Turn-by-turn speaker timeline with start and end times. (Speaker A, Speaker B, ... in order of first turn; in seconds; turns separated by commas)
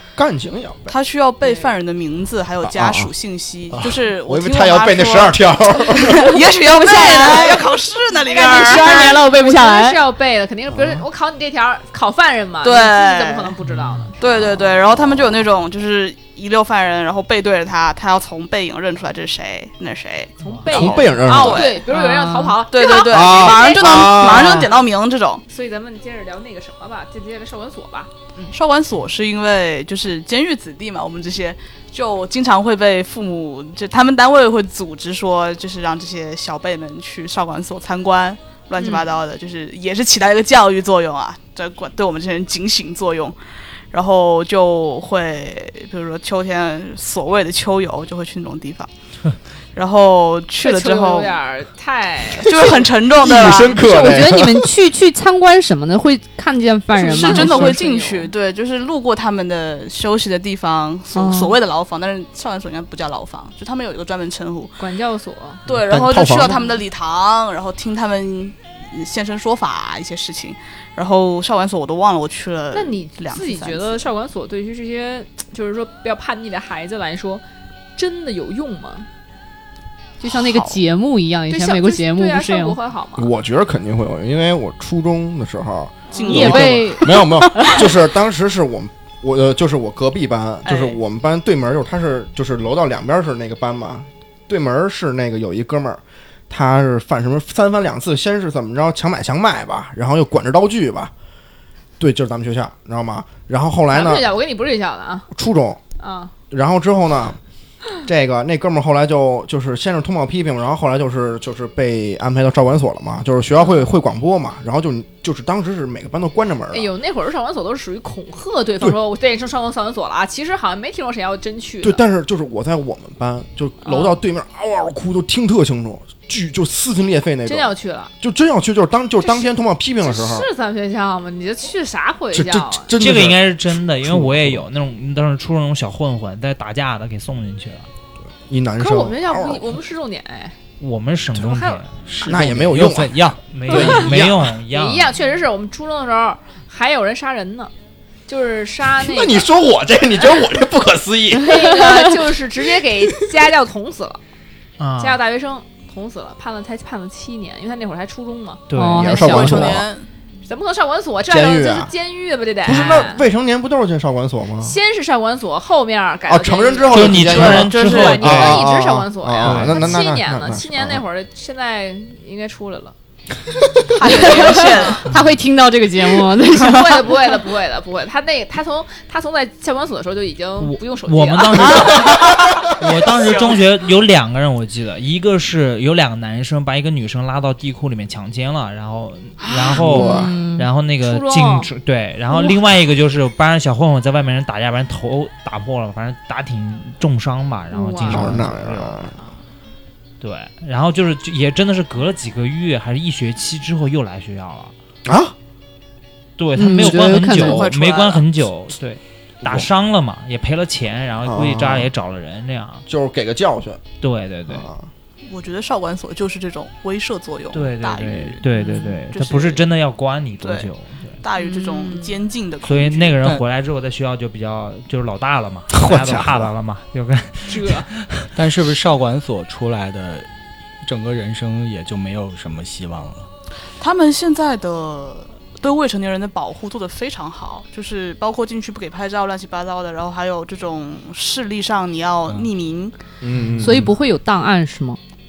Speaker A: 0.2-0.9, Speaker B: 0.9-9.2, Speaker C: 1.4-1.7, Speaker A: 2.6-3.1, Speaker A: 3.7-6.3, Speaker D: 6.2-10.0, Speaker C: 8.3-14.3, Speaker A: 10.7-11.0, Speaker B: 12.6-13.6, Speaker E: 13.7-14.1, Speaker B: 14.2-21.9, Speaker C: 20.4-24.8, Speaker A: 20.7-21.8, Speaker D: 21.9-22.6, Speaker B: 22.6-25.4, Speaker A: 23.1-24.7, Speaker C: 25.5-28.6, Speaker B: 28.5-43.4, Speaker C: 38.8-39.1, Speaker B: 43.9-48.9, Speaker B: 49.7-51.4, Speaker C: 50.6-52.9, Speaker B: 52.3-53.8, Speaker A: 53.2-54.7, Speaker D: 53.8-57.9, Speaker C: 56.9-58.3, Speaker B: 57.1-64.8, Speaker D: 61.1-61.5, Speaker C: 64.8-65.6, Speaker B: 65.7-74.0, Speaker A: 65.7-66.6, Speaker C: 72.7-77.4, Speaker C: 78.0-79.1, Speaker D: 80.2-82.8, Speaker B: 80.3-80.8, Speaker C: 81.5-83.3, Speaker A: 83.2-101.1, Speaker C: 86.1-86.6, Speaker B: 86.1-87.8, Speaker D: 86.3-87.3, Speaker B: 90.6-91.0, Speaker A: 102.0-104.3, Speaker C: 103.9-105.3, Speaker A: 105.3-105.8, Speaker C: 106.0-106.3, Speaker A: 106.5-107.4, Speaker A: 108.0-116.9, Speaker C: 116.7-122.0, Speaker A: 121.8-130.5, Speaker C: 123.8-124.2, Speaker C: 127.5-128.1, Speaker C: 129.2-129.5, Speaker C: 130.0-132.9, Speaker A: 132.3-134.7, Speaker E: 132.9-137.9, Speaker A: 138.5-139.8, Speaker C: 138.8-140.6, Speaker E: 140.8-142.2, Speaker C: 141.4-141.8, Speaker F: 142.1-144.1, Speaker A: 142.2-144.6, Speaker E: 143.5-145.1, Speaker C: 143.7-144.0, Speaker C: 144.7-147.7, Speaker C: 148.3-149.5, Speaker A: 149.0-151.8, Speaker C: 151.4-154.2, Speaker E: 154.8-155.2, Speaker C: 155.0-158.7, Speaker E: 158.7-159.2, Speaker D: 158.7-159.8, Speaker A: 159.0-159.8, Speaker B: 159.1-160.1, Speaker C: 160.4-163.3, Speaker A: 161.3-161.9, Speaker A: 162.6-164.8, Speaker C: 164.6-172.9, Speaker A: 166.3-171.0, Speaker E: 166.9-168.6, Speaker B: 167.1-168.6, Speaker E: 169.4-169.9, Speaker B: 173.9-175.1, Speaker C: 174.0-175.1, Speaker D: 174.1-177.1, Speaker C: 176.5-182.2, Speaker E: 180.6-199.1, Speaker B: 181.6-183.6, Speaker A: 189.7-190.3, Speaker D: 189.9-190.6, Speaker C: 191.0-191.7, Speaker C: 197.7-198.4, Speaker A: 198.1-199.1, Speaker E: 200.2-204.7, Speaker A: 205.1-205.3, Speaker E: 206.4-212.9, Speaker D: 206.6-207.7, Speaker B: 207.4-208.3, Speaker A: 211.2-211.9, Speaker A: 212.9-213.8, Speaker E: 214.0-214.7, Speaker A: 214.5-214.9, Speaker B: 215.3-218.4, Speaker E: 217.5-221.2, Speaker B: 219.1-219.7, Speaker B: 220.4-223.2, Speaker C: 221.4-222.2, Speaker E: 222.6-228.3, Speaker A: 225.7-226.5, Speaker C: 227.4-227.9, Speaker F: 228.3-230.3, Speaker F: 230.8-233.3, Speaker B: 233.8-242.9, Speaker A: 243.2-243.9, Speaker E: 243.4-243.9, Speaker D: 243.6-245.0